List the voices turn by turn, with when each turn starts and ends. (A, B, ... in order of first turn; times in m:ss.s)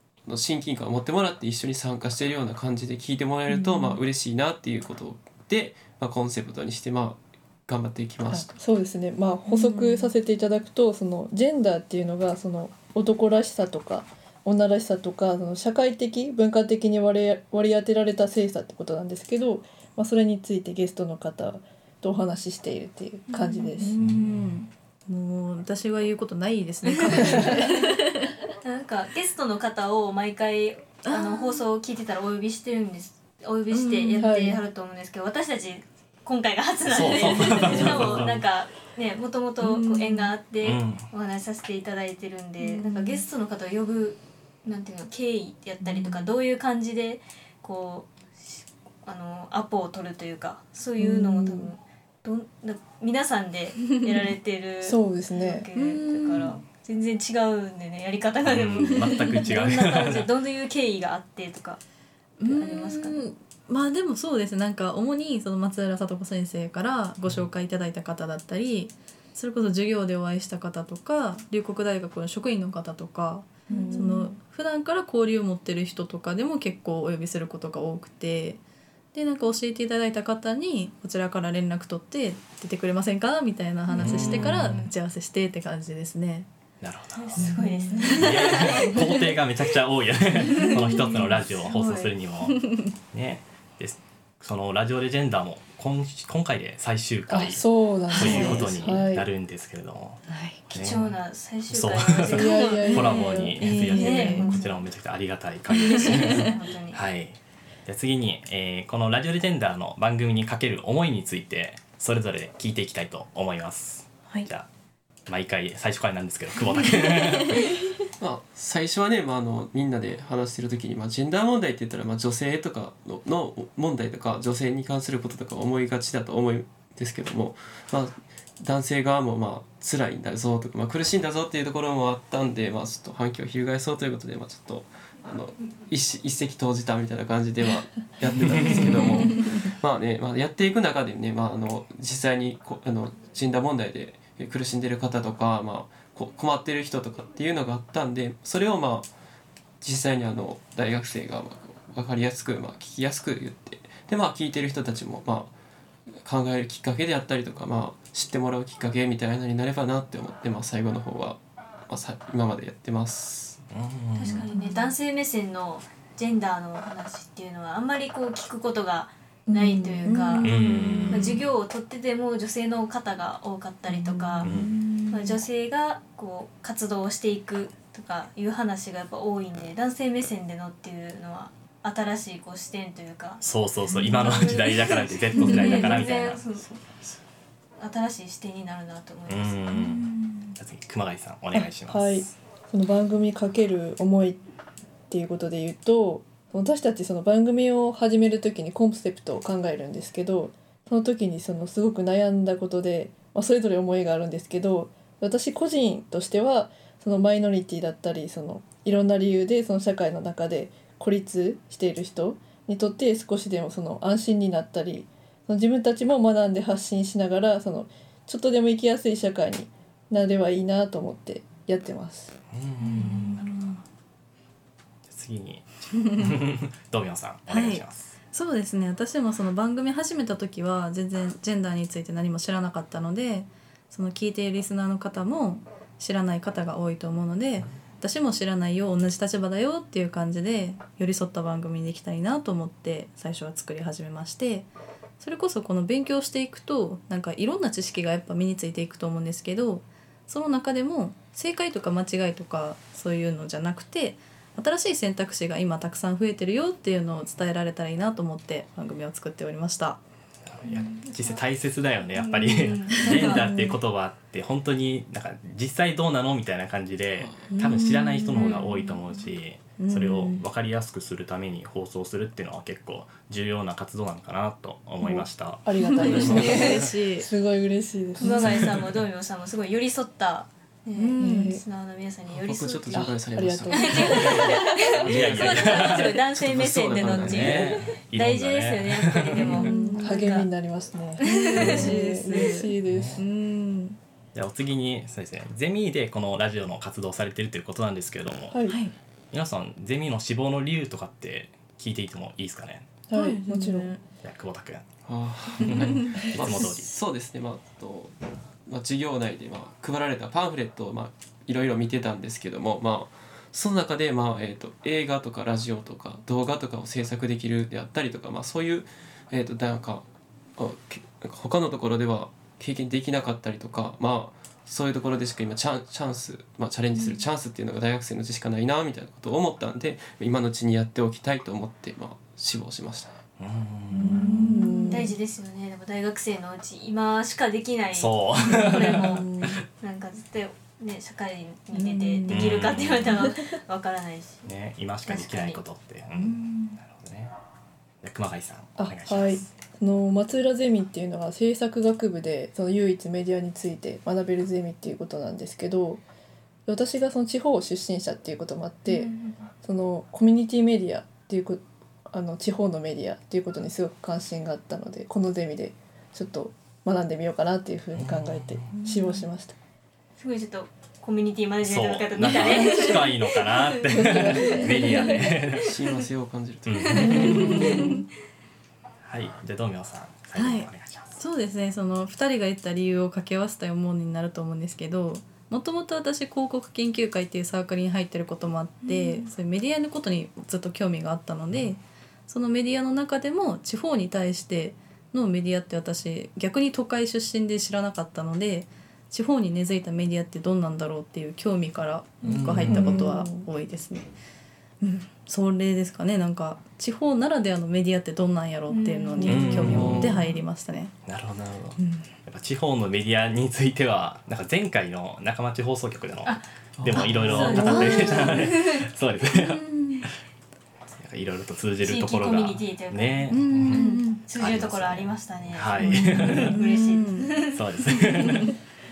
0:00.2-0:08.5 A
0:03.5-0:04.0 B
0:08.2-0:23.9 B
0:09.5-0:10.1 C
0:23.3-0:28.3 C
0:24.0-0:24.5 D
0:27.2-0:27.5 B
0:28.6-1:01.8 E
0:31.0-0:31.6 C
0:33.7-0:34.4 C
0:34.2-0:34.6 B
0:36.8-0:38.4 D
0:37.6-0:38.3 A
0:39.6-0:40.3 C
0:40.6-0:41.0 D
0:42.6-0:43.2 C
0:45.9-0:46.2 C
0:51.0-0:51.7 B
0:54.8-0:55.7 B
0:55.8-0:56.6 C
0:58.4-1:00.3 D
0:59.0-0:59.3 C
1:02.4-1:18.6 C
1:02.4-1:03.2 E
1:13.7-1:14.4 B
1:19.1-1:26.5 C
1:23.9-1:24.9 D
1:26.8-1:27.5 D
1:27.1-1:29.0 E
1:27.4-1:28.9 C
1:28.1-1:41.2 D
1:30.7-1:32.1 E
1:32.5-1:32.9 C
1:37.3-1:39.2 B
1:38.2-1:38.6 C
1:40.3-1:40.6 C
1:40.7-1:43.2 E
1:41.7-1:54.7 D
1:42.3-1:44.6 B
1:43.6-1:44.5 C
1:43.9-1:44.8 E
1:45.8-1:47.0 E
1:46.0-1:46.5 C
1:55.3-1:57.6 D
1:58.2-2:29.1 A
2:18.5-2:18.9 D
2:18.6-2:19.5 C
2:29.8-2:35.5 A
2:36.2-2:43.6 A
2:43.7-2:44.4 D
2:44.2-2:50.4 E
2:44.5-2:44.9 C
2:49.5-2:50.1 B
2:50.0-2:51.3 C
2:50.4-2:51.4 D
2:51.1-2:54.5 E
2:54.4-2:54.8 D
2:54.4-2:55.4 C
2:55.1-3:03.4 E
3:03.4-3:06.4 D
3:04.0-3:04.5 C
3:04.0-3:06.8 E
3:05.4-3:05.9 C
3:06.6-3:07.2 A
3:07.8-3:09.7 E
3:09.3-3:12.3 D
3:09.7-3:10.5 C
3:11.5-3:14.4 B
3:15.1-3:42.4 B
3:42.5-3:43.5 D
3:42.8-3:43.8 C
3:45.0-3:48.1 D
3:46.0-3:46.3 C
3:47.5-4:04.7 C
4:05.2-4:20.0 C
4:20.5-4:36.8 D
4:22.2-4:23.5 E
4:23.1-4:23.8 C
4:27.2-4:27.6 A
4:27.5-4:29.0 C
4:29.8-4:30.4 C
4:35.0-4:38.7 B
4:35.8-4:37.3 C
4:38.2-4:50.5 E
4:38.2-4:38.8 D
4:41.0-4:41.6 C
4:41.2-4:41.6 B
4:42.3-4:47.9 A
4:42.9-4:44.6 B
4:45.0-4:46.2 D
4:46.9-4:49.5 D
4:49.4-4:50.3 C
4:49.5-4:53.2 B
4:51.2-4:51.9 E
4:51.2-4:54.0 C
4:52.9-4:53.2 D
4:54.3-4:58.6 D
4:58.5-4:58.8 B
4:58.7-4:58.9 C
4:59.3-5:02.9 D
5:03.1-5:03.9 B
5:03.1-5:04.0 C
5:04.2-5:04.8 D
5:05.0-5:33.2 A
5:05.6-5:06.9 D
5:06.0-5:06.3 C
5:33.4-5:34.2 D
5:34.0-5:35.0 C
5:34.0-5:35.1 B
5:34.9-5:39.2 E
5:37.9-5:39.5 D
5:38.9-5:39.5 B
5:39.8-5:44.4 E
5:41.7-5:42.5 C
5:42.3-5:43.2 D
5:44.4-5:47.3 D
5:45.1-5:45.6 E
5:46.1-5:46.8 C
5:48.0-5:49.5 D
5:48.8-5:56.0 B
5:56.6-6:09.5 B
5:58.9-5:59.4 E
6:08.0-6:08.6 D
6:08.7-6:09.2 C
6:10.2-6:13.8 E
6:11.6-6:15.7 D
6:13.9-6:15.1 B
6:14.6-6:15.1 C
6:15.6-6:17.8 A
6:16.6-6:17.7 D
6:16.9-6:17.9 E
6:17.0-6:18.0 C
6:17.4-6:17.9 B
6:19.0-6:21.2 D
6:20.3-6:44.1 C
6:28.8-6:29.2 E
6:42.2-6:43.0 D
6:42.7-6:43.5 B
6:44.8-6:50.9 C
6:48.7-6:50.0 E
6:49.2-6:49.6 B
6:49.2-6:50.2 D
6:49.7-6:50.1 A
6:51.0-7:00.2 D
6:51.8-6:52.0 C
6:56.8-6:58.3 A
6:57.0-6:58.8 E
6:57.6-6:58.1 C
6:59.3-7:00.1 C
7:00.9-7:06.6 D
7:01.8-7:07.6 E
7:03.3-7:04.2 C
7:05.8-7:07.4 C
7:07.5-7:08.5 D